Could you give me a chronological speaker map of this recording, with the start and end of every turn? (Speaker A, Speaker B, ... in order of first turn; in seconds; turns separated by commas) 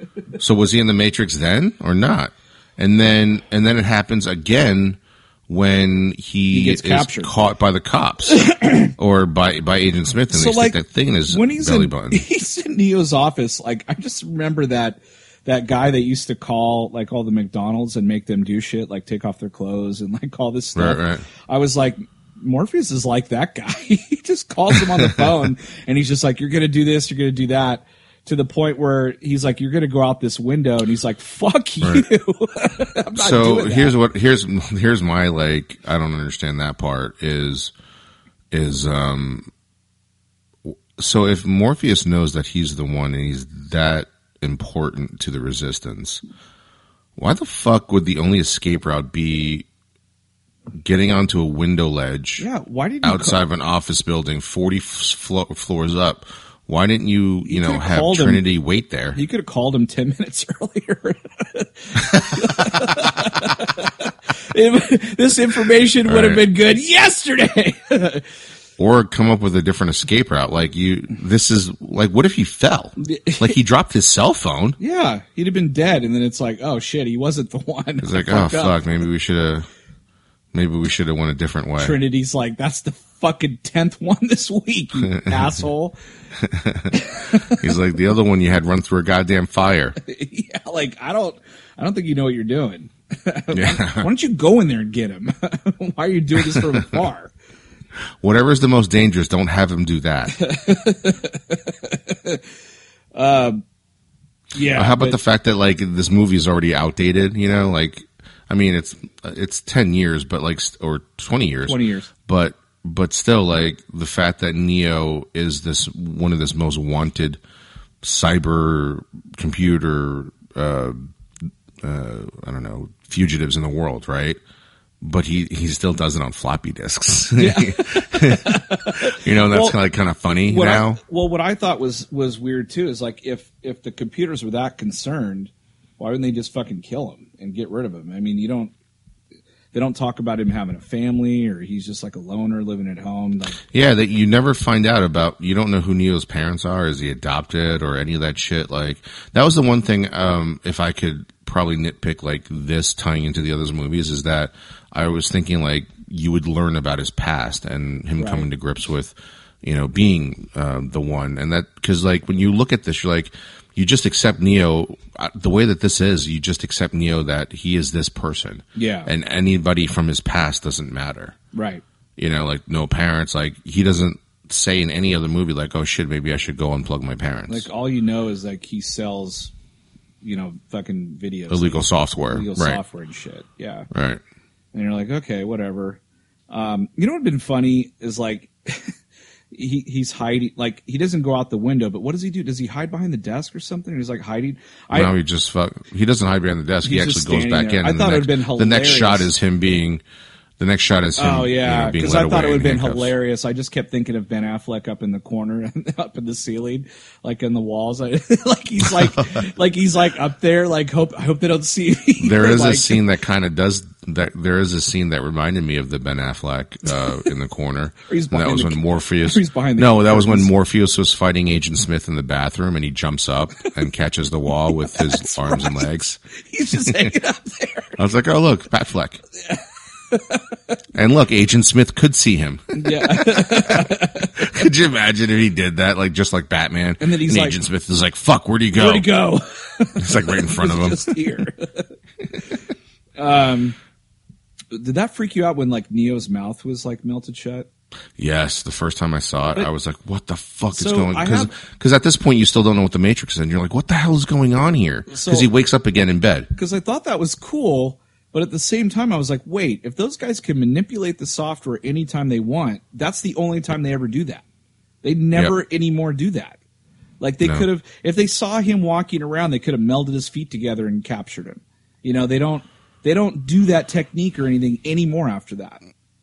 Speaker A: 0.4-8.4, Speaker B: 6.5-7.3, Speaker B: 8.3-8.9, Speaker A: 9.0-12.2, Speaker B: 10.3-33.9, Speaker A: 20.7-21.2, Speaker A: 24.7-25.4, Speaker A: 33.1-37.7, Speaker A: 38.5-39.5, Speaker A: 40.7-46.2, Speaker A: 47.2-49.7, Speaker A: 50.7-52.5, Speaker B: 52.4-53.4, Speaker A: 53.0-59.2, Speaker B: 57.4-58.4, Speaker B: 59.1-68.2, Speaker A: 66.0-66.4, Speaker A: 68.8-74.8, Speaker B: 73.0-73.5, Speaker B: 74.8-78.8, Speaker A: 78.0-79.7, Speaker A: 80.5-82.0, Speaker B: 81.8-85.9, Speaker A: 85.1-85.5, Speaker A: 86.4-90.0, Speaker B: 86.9-87.6, Speaker B: 90.0-97.3, Speaker A: 93.5-94.1, Speaker A: 96.5-96.9, Speaker A: 98.2-100.4, Speaker B: 100.4-102.4, Speaker B: 103.1-103.6, Speaker B: 104.5-105.2, Speaker A: 104.6-117.4, Speaker B: 111.7-112.1, Speaker A: 118.0-121.0, Speaker A: 121.8-124.4, Speaker A: 125.0-131.0, Speaker B: 127.4-129.8, Speaker B: 130.5-138.7, Speaker B: 139.7-143.6, Speaker A: 143.7-171.3, Speaker B: 158.2-158.4, Speaker B: 168.8-169.1, Speaker B: 171.5-171.8, Speaker A: 172.2-177.6, Speaker B: 177.5-179.5, Speaker B: 180.2-183.9, Speaker A: 181.5-182.8, Speaker A: 183.9-184.2, Speaker B: 184.7-189.0, Speaker B: 189.5-195.2, Speaker A: 194.9-200.0, Speaker B: 196.8-199.3, Speaker A: 200.6-203.1, Speaker B: 201.2-213.0, Speaker A: 212.2-226.2, Speaker B: 218.1-220.5, Speaker B: 224.9-225.9, Speaker B: 226.4-228.0, Speaker A: 226.7-227.1, Speaker A: 228.0-229.2, Speaker B: 229.4-230.4, Speaker A: 230.9-239.1, Speaker B: 232.7-234.7, Speaker B: 237.0-237.6, Speaker B: 238.7-241.9, Speaker A: 240.0-241.1, Speaker B: 243.2-243.8, Speaker B: 244.7-247.7, Speaker A: 248.2-256.5, Speaker B: 250.7-251.5, Speaker B: 255.1-255.5, Speaker B: 256.5-264.4, Speaker B: 265.0-266.6, Speaker B: 267.2-275.8